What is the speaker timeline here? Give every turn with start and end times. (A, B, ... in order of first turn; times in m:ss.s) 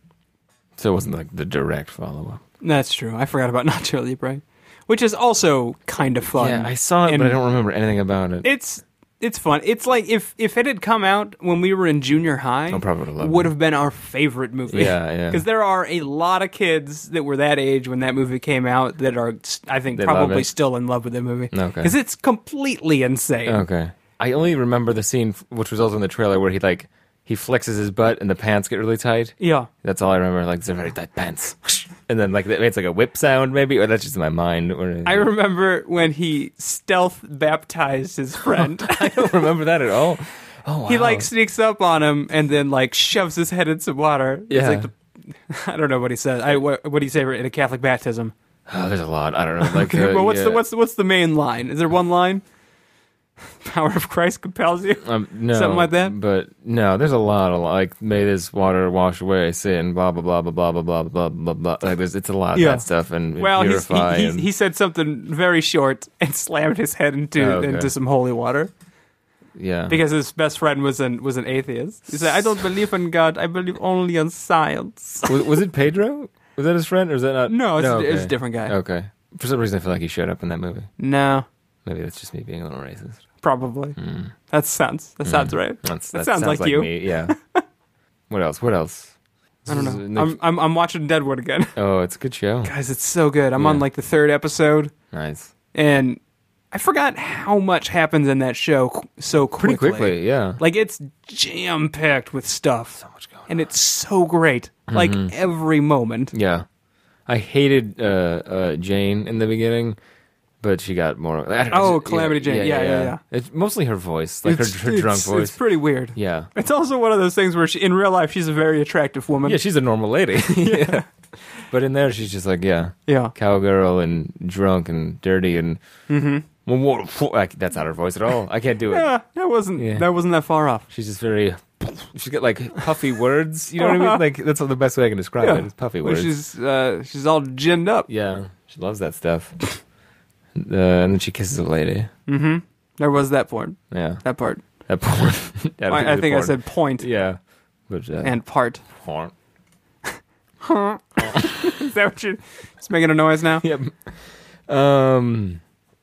0:00.8-0:02.4 A
0:02.6-0:07.4 B
0:06.4-0:08.4 A
0:08.4-0:23.6 B
0:12.7-0:13.5 A
0:14.7-0:15.4 A
0:19.9-0:20.5 A
0:21.5-0:21.9 A
0:23.4-0:35.3 A
0:29.4-0:29.7 B
0:35.0-0:39.3 B
0:38.6-0:41.3 A
0:40.8-0:44.9 B
0:44.5-0:44.9 A
0:45.5-0:48.3 B
0:48.7-0:50.6 A
0:49.6-0:52.4 B
0:53.6-0:56.2 B
0:55.0-1:04.5 A
1:02.5-1:02.8 B
1:03.4-1:08.7 B
1:07.4-1:07.9 A
1:09.5-1:10.0 A
1:09.9-1:15.4 B
1:15.3-1:20.9 A
1:17.5-1:18.7 B
1:21.0-1:21.4 B
1:21.8-1:23.2 A
1:23.4-1:24.0 B
1:24.0-1:24.3 A
1:24.5-1:27.6 B
1:25.2-1:27.3 A
1:28.3-1:29.1 A
1:29.6-1:30.4 A
1:29.7-1:31.7 B
1:31.8-1:32.7 A
1:32.6-1:34.9 B
1:33.6-1:33.8 A
1:35.1-1:35.5 A
1:35.7-1:36.2 B
1:36.7-1:46.3 B
1:39.6-1:40.6 A
1:43.1-1:43.5 A
1:44.9-1:45.3 A
1:46.3-1:46.6 A
1:47.3-1:50.0 A
1:50.6-1:55.6 A
1:51.7-1:53.2 B
1:54.4-1:59.6 B
1:56.1-1:56.5 A
1:59.4-2:05.8 A
2:00.6-2:01.1 B
2:03.1-2:03.3 B
2:06.1-2:06.4 B
2:06.6-2:09.1 A
2:08.9-2:10.9 B
2:09.8-2:10.1 A
2:10.9-2:16.3 A
2:13.8-2:14.2 B
2:15.4-2:18.1 B
2:18.1-2:19.6 A
2:20.5-2:22.1 A
2:22.3-2:24.6 B
2:23.9-2:24.2 A
2:24.8-2:28.4 A
2:25.9-2:27.1 B
2:28.2-2:28.8 B
2:28.9-2:29.3 A
2:30.6-2:33.6 B
2:31.2-2:31.7 A
2:33.6-2:35.6 A